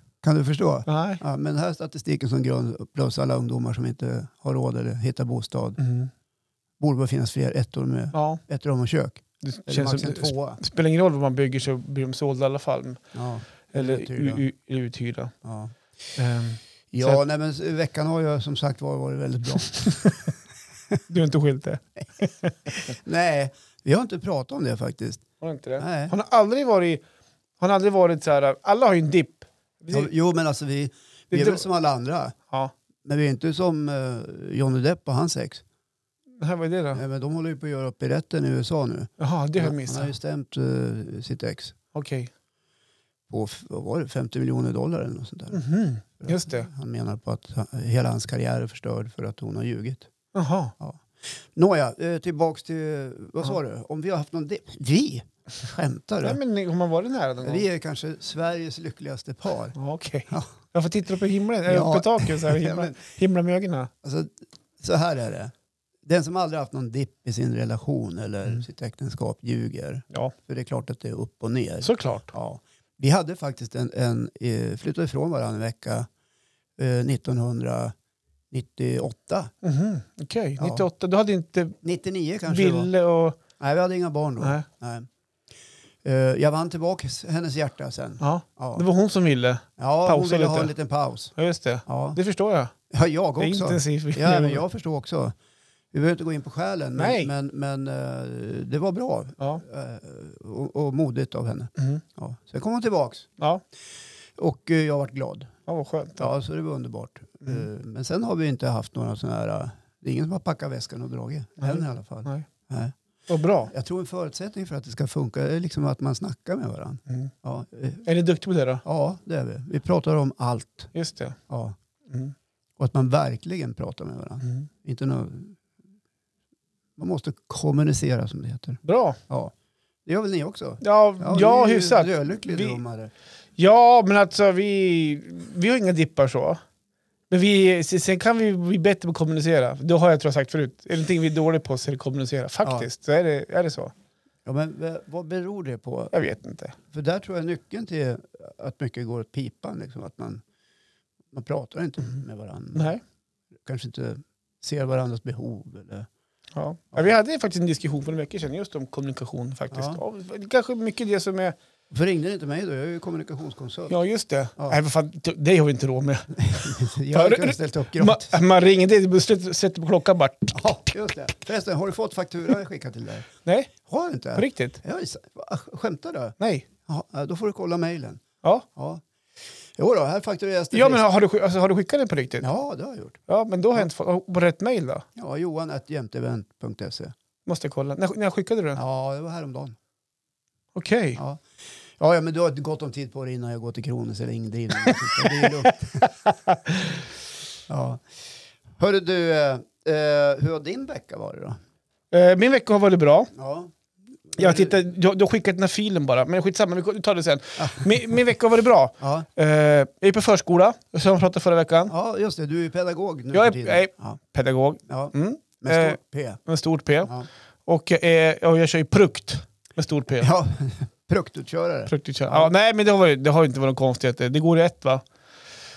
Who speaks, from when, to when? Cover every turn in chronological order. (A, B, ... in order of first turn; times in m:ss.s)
0:00.2-0:05.8 A
0:00.9-0:01.2 B
0:05.8-0:06.1 B
0:06.8-0:10.6 A
0:08.1-0:08.4 B
0:09.4-0:13.0 B
0:13.1-0:14.4 A
0:13.7-0:15.3 B
0:15.4-0:15.7 A
0:16.2-0:17.2 B
0:16.9-0:20.1 A
0:19.9-0:20.1 B
0:21.1-0:22.8 B
0:22.7-0:25.2 A
0:25.4-0:27.0 B
0:25.8-0:26.1 A
0:27.6-0:30.1 B
0:29.9-0:32.4 A
0:31.3-0:31.6 B
0:33.0-0:35.6 A
0:36.4-0:37.0 B
0:36.9-0:41.8 A
0:39.2-0:40.1 B
0:41.9-0:42.3 B
0:43.3-0:45.6 A
0:45.5-0:46.7 B
0:46.2-0:50.1 A
0:50.3-0:50.7 B
0:51.5-0:56.4 A
0:56.2-0:57.6 B
0:57.4-0:59.7 A
0:59.7-1:03.9 B
1:01.6-1:03.0 A
1:04.0-1:05.5 A
1:06.0-1:16.1 A
1:11.8-1:12.3 B
1:16.8-1:17.9 A
1:18.5-1:19.5 A
1:19.6-1:21.8 B
1:20.6-1:20.8 A
1:21.8-1:22.9 A
1:22.5-1:23.4 B
1:23.6-1:25.1 A
1:24.4-1:24.6 B
1:26.0-1:28.8 A
1:28.2-1:30.7 B
1:29.8-1:31.3 A
1:31.4-1:32.7 B
1:31.9-1:32.2 A
1:32.9-1:35.3 A
1:33.4-1:34.6 B
1:35.9-1:43.3 A
1:37.0-1:37.3 B
1:41.8-1:42.0 B
1:44.4-1:45.5 A
1:45.7-1:46.3 B
1:46.2-1:52.9 A
1:51.6-1:52.4 B
1:53.3-1:53.7 B
1:53.6-1:58.0 A
1:58.0-1:58.8 B
1:58.8-2:00.9 A
2:00.9-2:01.4 B
2:01.5-2:01.8 A
2:02.1-2:02.3 B
2:02.8-2:05.6 A
2:07.0-2:09.5 A
2:08.8-2:09.2 B
2:10.0-2:13.1 A
2:10.8-2:12.8 B
2:13.6-2:16.6 B
2:17.3-2:23.9 B
2:22.6-2:22.9 A
2:24.4-2:26.1 A
2:26.1-2:26.8 B
2:26.9-2:30.4 A
2:31.3-2:33.0 A
2:32.7-2:33.0 B
2:33.6-2:36.1 A
2:36.5-2:41.6 B
2:39.7-2:40.0 A
2:41.9-2:44.0 A
2:43.9-2:50.5 B
2:46.4-2:48.4 A
2:50.5-2:53.3 A
2:53.4-2:53.7 B
2:53.8-2:58.2 A
2:54.4-2:54.8 B
2:56.4-2:56.7 B
2:58.7-2:59.0 A
2:59.8-3:01.0 A
3:00.7-3:02.5 B
3:02.4-3:03.2 A
3:03.3-3:05.0 B
3:05.2-3:07.1 A
3:07.4-3:08.8 B
3:08.7-3:09.8 A
3:10.7-3:11.2 B
3:11.2-3:11.4 A
3:12.0-3:16.1 A
3:14.9-3:15.5 B
3:16.3-3:17.0 B
3:17.7-3:18.0 A
3:18.8-3:21.6 A
3:22.1-3:23.3 B
3:23.4-3:23.7 A
3:24.3-3:24.8 A
3:24.4-3:31.9 B
3:27.6-3:28.0 A
3:29.0-3:29.3 A
3:31.9-3:34.2 A
3:33.3-3:37.1 B
3:34.9-3:36.4 A
3:37.6-3:40.3 B
3:40.2-3:42.5 A
3:41.9-3:45.0 B